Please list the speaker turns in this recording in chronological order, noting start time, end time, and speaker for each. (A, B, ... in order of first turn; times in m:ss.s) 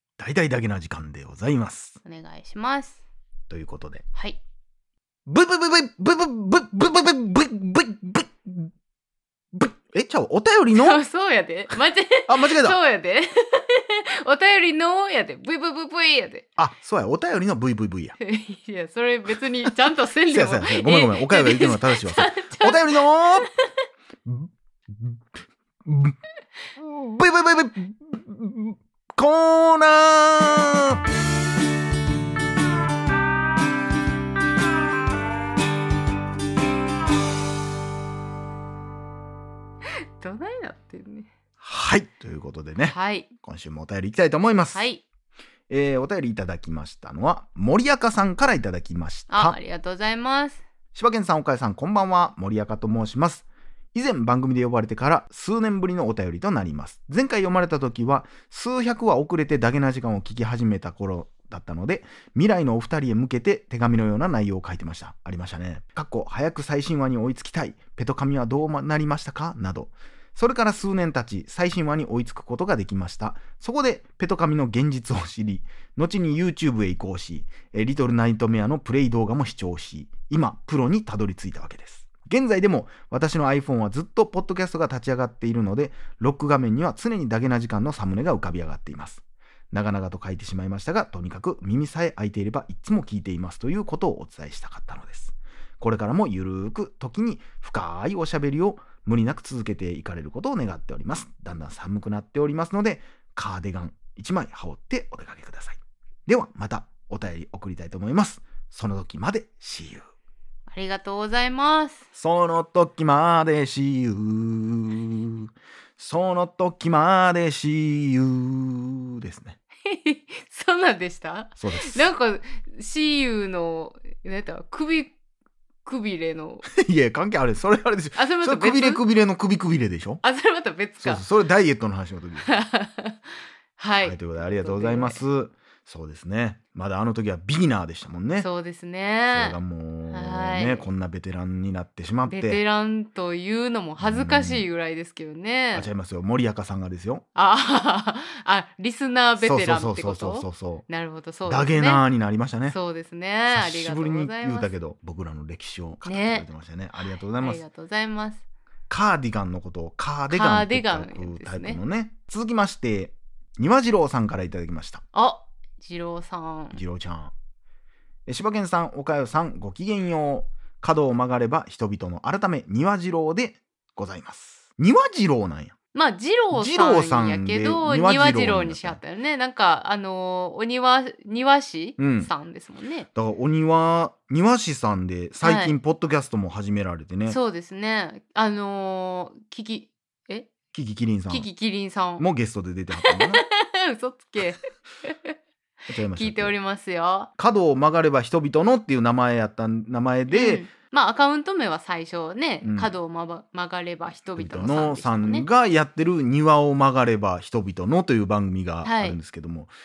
0:00.2-0:02.0 A
0:02.0-0:03.0 B
0:03.5-0:04.0 A
0:04.1-0:04.4 B
0:05.3-0:08.7 A
0:09.5-0:11.0 A
0:10.7-0:16.4 B
0:12.3-0:12.8 A
0:16.6-0:18.2 A
0:18.2-0:23.5 B
0:20.3-0:23.5 A
0:24.2-0:25.2 A
0:25.8-0:26.2 A
0:26.8-0:31.0 A
0:40.2-0:41.3 B
0:41.6-0:44.8 A
0:42.8-0:43.3 B
0:44.7-0:45.0 B
0:45.7-0:49.6 A
0:49.3-0:50.6 B
0:50.9-1:50.0 A
1:50.7-1:52.0 B
1:52.1-1:59.6 A
1:59.8-2:05.1 B
2:01.6-2:02.1 A
2:05.8-2:06.6 B
2:06.6-2:10.2 A
2:08.2-2:09.0 B
2:10.2-2:11.2 B
2:11.0-2:12.5 A
2:12.4-2:13.2 B
2:13.8-2:15.2 B
2:14.0-2:18.5 A
2:18.4-2:19.6 B
2:19.3-2:22.6 A
2:20.1-2:20.9 B
2:22.3-2:25.9 B
2:24.0-2:24.6 A
2:25.7-2:27.2 A
2:27.3-2:32.0 B
2:29.4-2:30.8 A
2:31.5-2:32.8 A
2:32.7-2:34.7 B
2:33.5-2:37.6 A
2:36.0-2:36.5 B
2:37.0-2:38.4 B
2:38.9-2:45.0 A
2:40.3-2:41.8 B
2:45.1-2:46.8 B
2:46.7-2:47.3 A
2:48.3-2:55.8 A
2:55.9-3:03.1 B
2:56.5-2:59.0 A
3:02.0-3:02.3 A
3:03.2-3:07.4 A
3:05.4-3:05.7 B
3:07.3-3:10.5 B
3:10.7-3:11.5 A
3:11.3-3:12.2 B
3:12.2-3:13.4 A
3:13.0-3:15.4 B
3:15.9-3:16.6 A
3:16.1-3:17.3 B
3:17.4-3:20.6 A
3:20.3-3:25.5 B
3:22.6-3:22.9 A
3:24.3-3:29.7 A
3:28.8-3:29.2 B